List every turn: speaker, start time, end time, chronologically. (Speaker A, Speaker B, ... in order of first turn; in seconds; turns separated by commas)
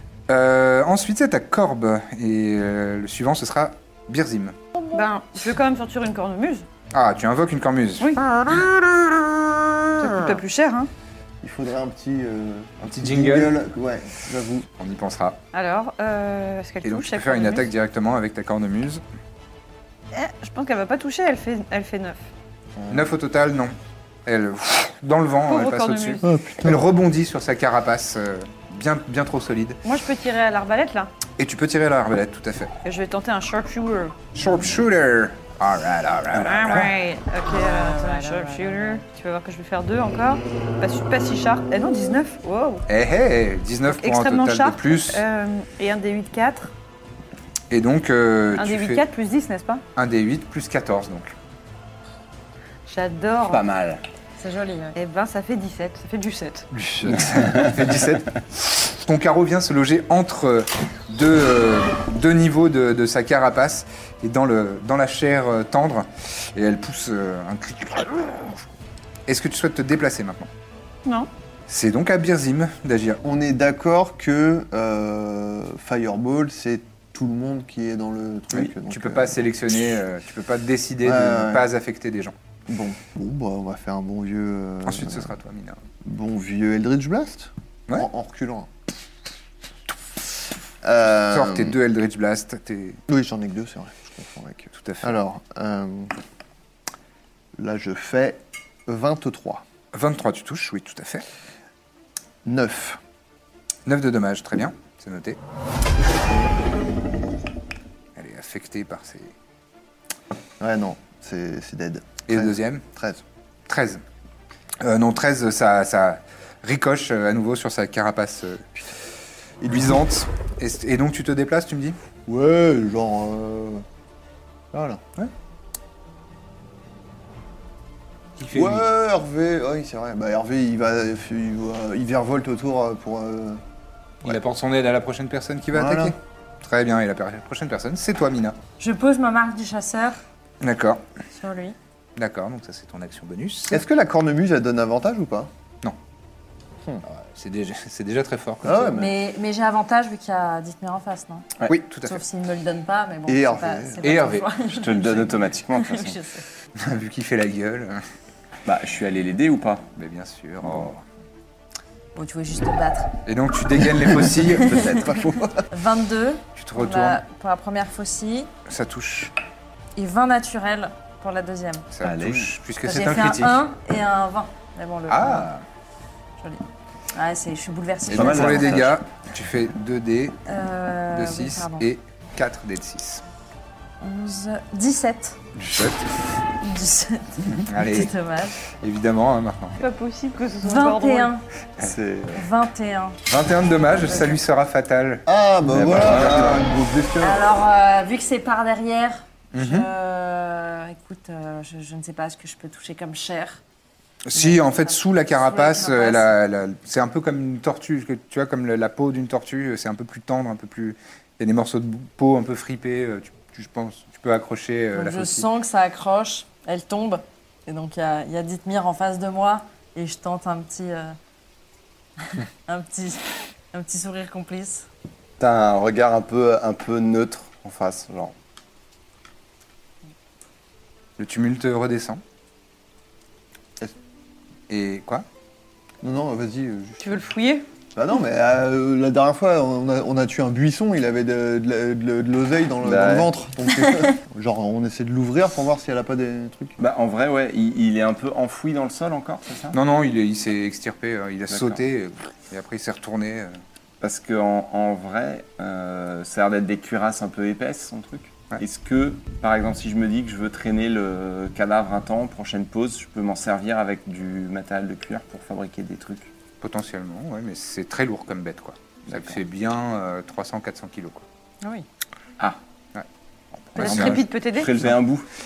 Speaker A: 0.3-4.5, Speaker B: 4.9-6.6, Speaker A: 6.9-9.7, Speaker B: 10.0-10.9, Speaker C: 11.4-14.7, Speaker A: 12.9-13.5, Speaker A: 14.8-15.4, Speaker B: 15.5-17.7, Speaker A: 16.8-19.0, Speaker B: 20.1-22.2, Speaker C: 22.8-23.1, Speaker A: 22.9-29.8, Speaker B: 25.4-26.2, Speaker C: 26.2-26.9, Speaker B: 29.8-31.1, Speaker A: 31.4-32.7, Speaker B: 32.8-34.2, Speaker A: 34.3-36.9, Speaker D: 36.4-36.9, Speaker B: 36.4-42.8, Speaker E: 37.5-39.0, Speaker A: 42.9-45.2, Speaker B: 43.9-46.7, Speaker A: 47.7-49.0, Speaker B: 48.5-49.8, Speaker A: 49.9-51.3, Speaker B: 52.9-53.6, Speaker D: 53.5-54.0, Speaker E: 54.4-55.0, Speaker B: 54.9-56.7, Speaker A: 56.7-58.3, Speaker D: 57.3-57.7, Speaker A: 58.9-68.6, Speaker A: 69.3-70.5, Speaker A: 71.7-73.2, Speaker C: 73.2-79.5, Speaker A: 78.5-82.3, Speaker C: 81.0-81.7, Speaker C: 82.7-85.3, Speaker A: 84.8-85.8, Speaker C: 86.0-88.7, Speaker C: 90.8-91.8, Speaker A: 91.3-93.0, Speaker C: 93.1-96.1, Speaker A: 94.7-95.1, Speaker C: 97.5-99.6, Speaker A: 99.9-101.2, Speaker C: 102.4-103.0, Speaker A: 103.8-105.4, Speaker A: 108.2-109.3, Speaker C: 110.6-113.2, Speaker A: 112.3-112.8, Speaker A: 113.7-114.0, Speaker A: 114.8-118.6, Speaker C: 119.6-120.0, Speaker A: 119.7-122.0, Speaker C: 122.2-123.8, Speaker C: 124.7-125.0, Speaker A: 128.4-128.8, Speaker C: 128.5-133.6, Speaker A: 134.2-138.6, Speaker C: 135.7-136.1, Speaker E: 138.8-140.2, Speaker A: 140.6-141.0, Speaker E: 141.3-141.8, Speaker A: 142.2-143.8, Speaker C: 143.7-145.5, Speaker A: 147.1-149.0, Speaker C: 148.6-149.1, Speaker E: 148.9-151.5, Speaker A: 151.7-152.2, Speaker E: 152.0-156.4, Speaker C: 153.3-154.1, Speaker A: 154.0-154.6, Speaker D: 154.6-156.2, Speaker A: 156.8-158.0, Speaker D: 158.7-159.8, Speaker A: 159.9-161.0, Speaker E: 162.2-163.1, Speaker A: 163.2-164.9, Speaker D: 164.7-165.2, Speaker C: 164.9-165.6, Speaker E: 165.7-168.5, Speaker A: 166.6-167.2, Speaker A: 168.7-169.3, Speaker E: 169.9-171.8, Speaker A: 171.9-173.7, Speaker D: 172.0-172.5, Speaker E: 172.8-175.5, Speaker A: 175.1-175.6, Speaker E: 176.4-178.8, Speaker D: 178.1-178.9, Speaker A: 178.1-180.4, Speaker E: 180.5-181.9, Speaker A: 181.1-183.2, Speaker E: 184.0-185.4, Speaker A: 185.6-186.1, Speaker E: 186.6-188.6, Speaker A: 187.7-188.1, Speaker A: 188.8-189.8, Speaker B: 189.8-191.3, Speaker E: 190.6-191.4, Speaker D: 191.8-192.4, Speaker E: 192.3-193.2, Speaker A: 193.3-195.2, Speaker E: 194.1-194.3, Speaker C: 195.2-197.6, Speaker D: 195.7-196.7, Speaker E: 197.2-203.6, Speaker A: 199.5-199.9, Speaker A: 204.2-215.5, Speaker E: 204.3-206.3, Speaker E: 214.9-221.2, Speaker E: 222.2-224.9, Speaker D: 225.4-228.3, Speaker A: 231.2-232.2, Speaker A: 234.7-235.2, Speaker C: 236.0-237.2, Speaker B: 237.0-237.7, Speaker C: 237.9-246.8, Speaker D: 242.8-243.3, Speaker D: 246.8-249.8, Speaker A: 249.7-253.6, Speaker D: 251.5-251.8, Speaker D: 254.0-266.3, Speaker A: 266.6-271.2, Speaker D: 269.1-269.4, Speaker A: 273.7-274.2, Speaker B: 273.8-274.7, Speaker D: 273.8-275.2